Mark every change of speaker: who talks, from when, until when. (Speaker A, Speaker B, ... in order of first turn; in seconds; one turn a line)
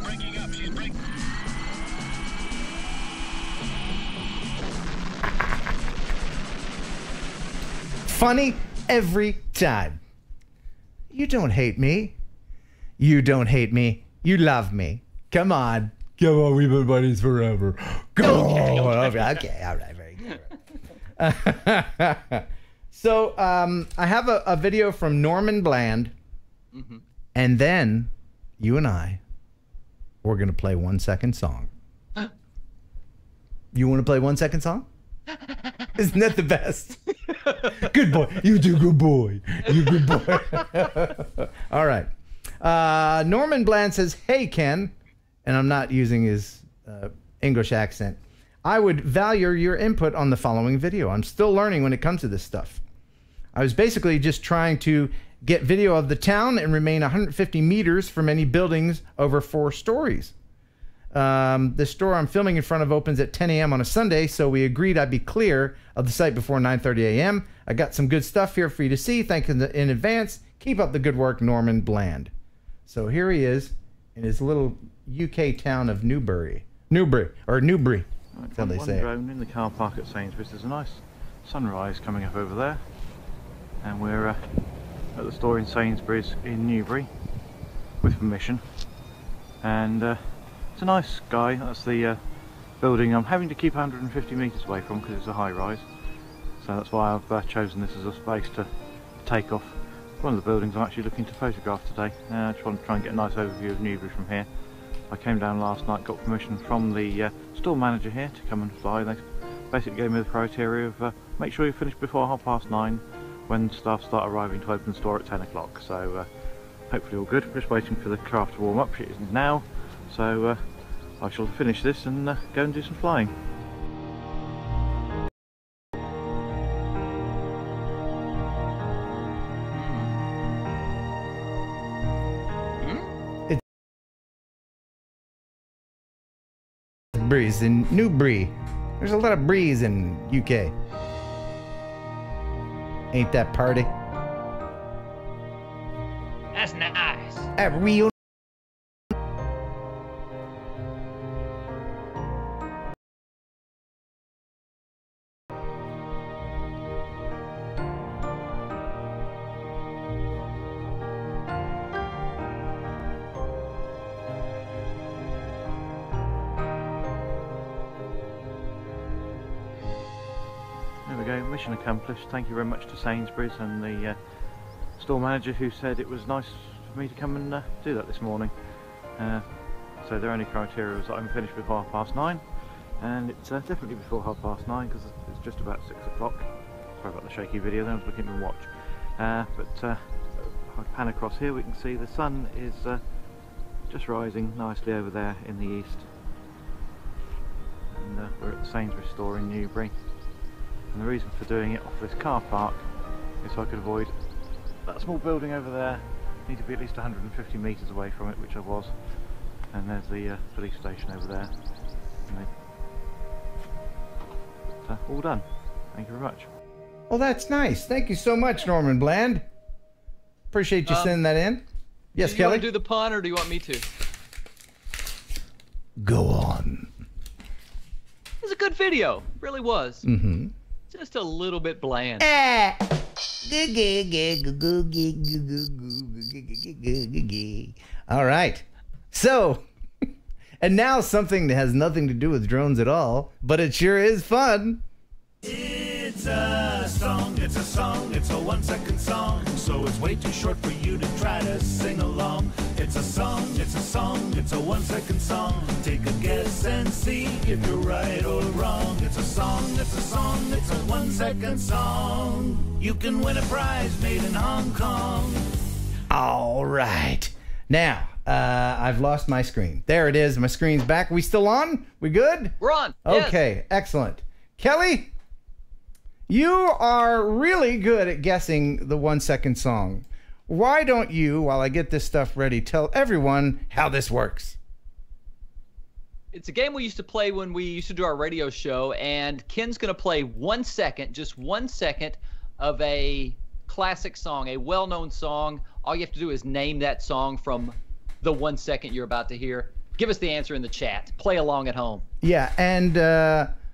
Speaker A: 8.1-10.0
Speaker A: 11.1-12.2
Speaker A: 13.0-20.5
Speaker B: 18.2-19.4
Speaker A: 21.2-26.1
Speaker B: 26.7-27.0
Speaker A: 27.3-29.2
Speaker A: 30.2-31.7
Speaker A: 33.7-34.9
Speaker A: 36.0-37.0
Speaker B: 37.3-37.8
Speaker A: 37.7-42.1
Speaker B: 39.9-40.6
Speaker A: 42.6-44.9
Speaker A: 45.4-52.8
Speaker A: 53.5-60.3
Speaker A: 61.1-72.3
Speaker A: 72.9-79.1
Speaker C: 78.3-82.8
Speaker C: 83.8-84.4
Speaker C: 85.1-87.1
Speaker C: 88.0-88.6
Speaker C: 89.6-92.2
Speaker C: 92.8-95.8
Speaker C: 96.6-104.5
Speaker C: 105.1-116.3
Speaker C: 116.9-120.6
Speaker C: 121.2-123.3
Speaker B: 129.7-130.2
Speaker B: 132.8-133.1
Speaker A: 137.1-140.7
Speaker A: 143.1-143.9
Speaker B: 146.5-147.5
Speaker A: 147.6-148.2
Speaker C: 171.0-174.2
Speaker C: 174.9-178.6
Speaker C: 179.2-182.4
Speaker C: 183.0-193.0
Speaker C: 193.9-196.1
Speaker C: 197.9-199.9
Speaker C: 200.9-202.8
Speaker C: 203.4-204.1
Speaker C: 204.8-208.9
Speaker C: 209.7-211.5
Speaker C: 214.8-216.5
Speaker A: 217.1-219.4
Speaker A: 220.5-222.7
Speaker B: 220.9-221.2
Speaker B: 222.2-223.9
Speaker A: 226.0-226.9
Speaker B: 228.4-230.1
Speaker A: 230.0-230.5
Speaker B: 230.9-232.3
Speaker A: 232.2-232.8
Speaker A: 233.4-239.6
Speaker A: 240.6-244.8
Speaker D: 245.4-265.4
Speaker A: 266.1-275.1
Speaker B: 272.6-273.4
Speaker A: 276.3-284.6
Speaker B: 286.3-302.0
Speaker A: 302.2-303.5